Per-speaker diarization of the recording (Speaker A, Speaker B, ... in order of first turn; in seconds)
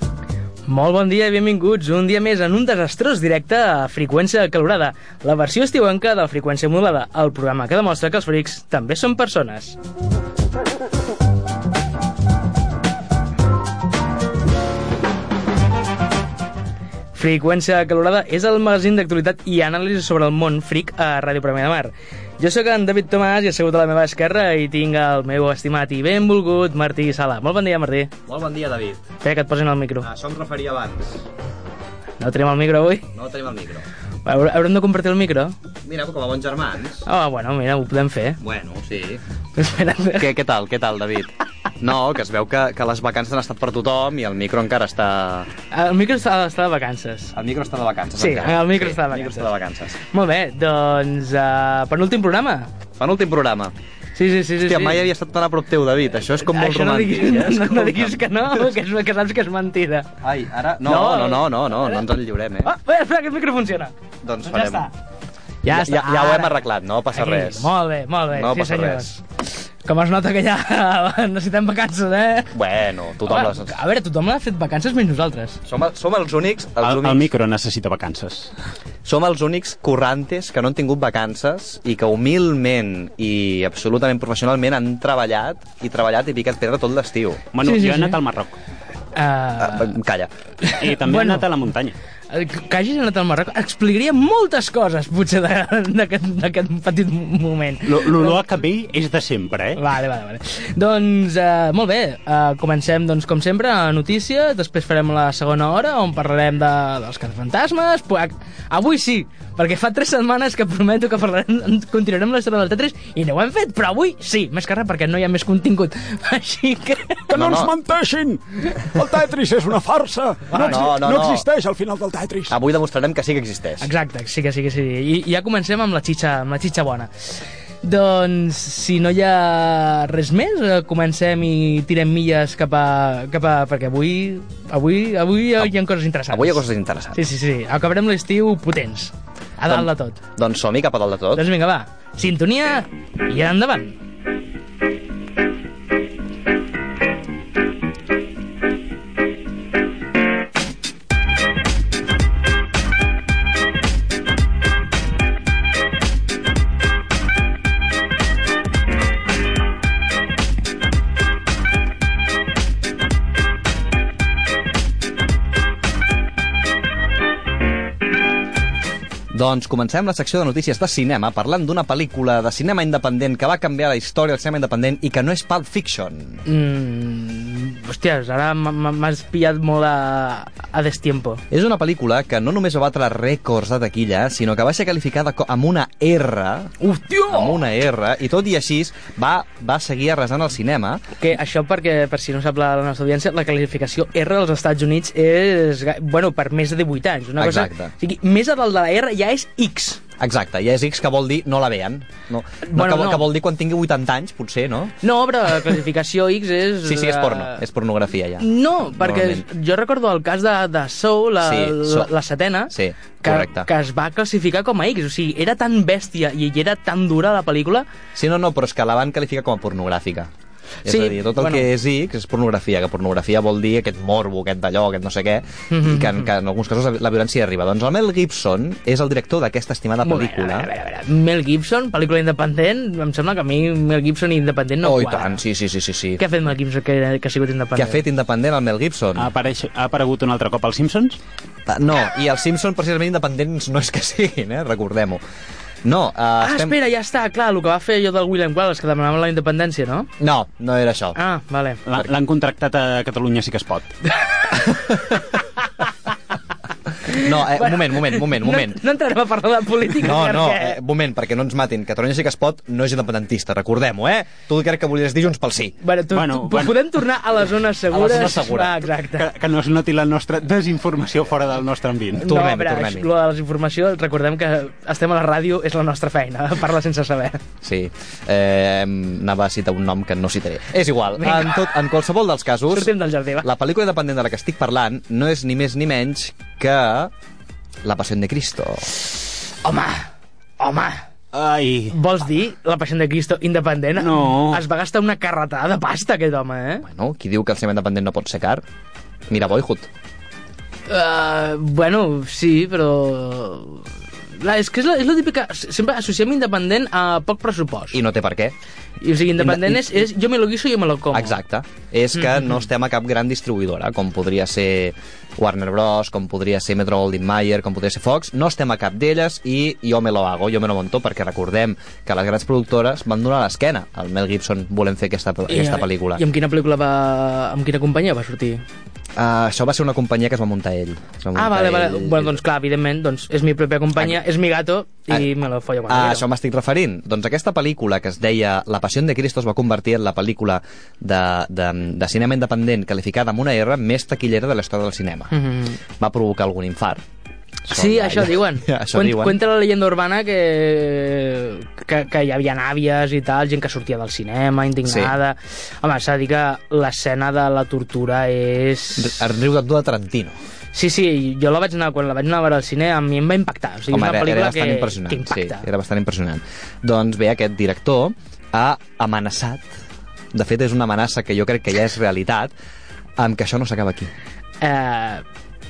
Speaker A: 0.6-9.8, 17.1-28.1, 29.2-30.1, 32.2-33.0, 34.2-35.5, 37.0-38.4, 39.5-40.3, 45.7-47.3, 48.2-49.5, 50.0-52.7, 54.1-55.0, 56.4-60.1, 60.8-62.0, 62.6-63.9, 64.5-64.9, 65.6-66.6, 67.1-69.2, 69.8-72.5, 73.2-75.6, 87.6-88.2, 89.1-89.9, 90.6-91.5, 92.3-98.4, 99.8-117.6, 120.5-120.9, 123.8-127.1, 127.8-136.6, 137.1-140.2, 141.3-144.0, 176.4-181.4, 186.8-187.6, 191.2-200.0, 202.7-203.3, 205.0-207.6, 208.4-217.8, 220.8-221.7, 225.7-226.3, 230.0-235.4, 236.2-238.0, 246.4-250.1, 251.2-251.8, 257.1-260.8, 265.8-269.3, 272.1-277.4, 281.2-281.8, 282.7-283.4, 289.6-291.0, 291.9-296.8, 300.9-303.9, 304.4-308.0, 309.0-311.4, 325.5-328.6, 331.4-336.2, 345.3-345.8, 347.7-359.2, 360.7-365.6, 374.6-375.2
Speaker B: 28.2-29.1, 30.0-31.2, 33.1-33.9, 35.8-37.1, 38.4-39.2, 40.1-45.5, 47.3-50.0, 53.0-53.7, 54.6-58.7, 60.2-62.7, 64.2-64.9, 65.6-67.7, 68.3-69.1, 72.5-73.8, 75.7-77.3, 79.0-87.4, 89.6-90.3, 117.3-117.7, 120.5-121.5, 122.5-123.9, 136.3-137.2, 139.7-141.4, 169.3-176.4, 181.5-186.7, 187.3-191.0, 197.4-197.9, 200.2-204.9, 206.8-209.4, 211.4-212.1, 212.7-213.7, 218.1-220.3, 220.8-230.7, 234.8-236.2, 237.7-239.3, 241.7-245.2, 245.8-246.8, 250.2-251.2, 254.7-255.1, 257.1-258.8, 260.0-265.8, 267.9-268.8, 272.2-273.1, 277.6-287.1, 287.8-288.9, 296.8-298.6, 299.3-299.9, 307.9-308.5, 309.4-310.1, 311.1-326.2, 329.1-332.4, 335.9-345.3, 346.0-347.0, 347.7-349.4, 354.8-355.1, 359.0-360.4, 363.9-369.7, 370.3-372.5, 373.2-374.1
Speaker C: 76.8-78.5, 87.5-88.5, 90.8-92.0, 97.8-99.8, 119.8-120.1, 239.2-241.2, 251.8-253.9, 266.1-266.9, 269.1-272.2, 291.3-291.9, 293.9-294.6
Speaker D: 117.5-122.5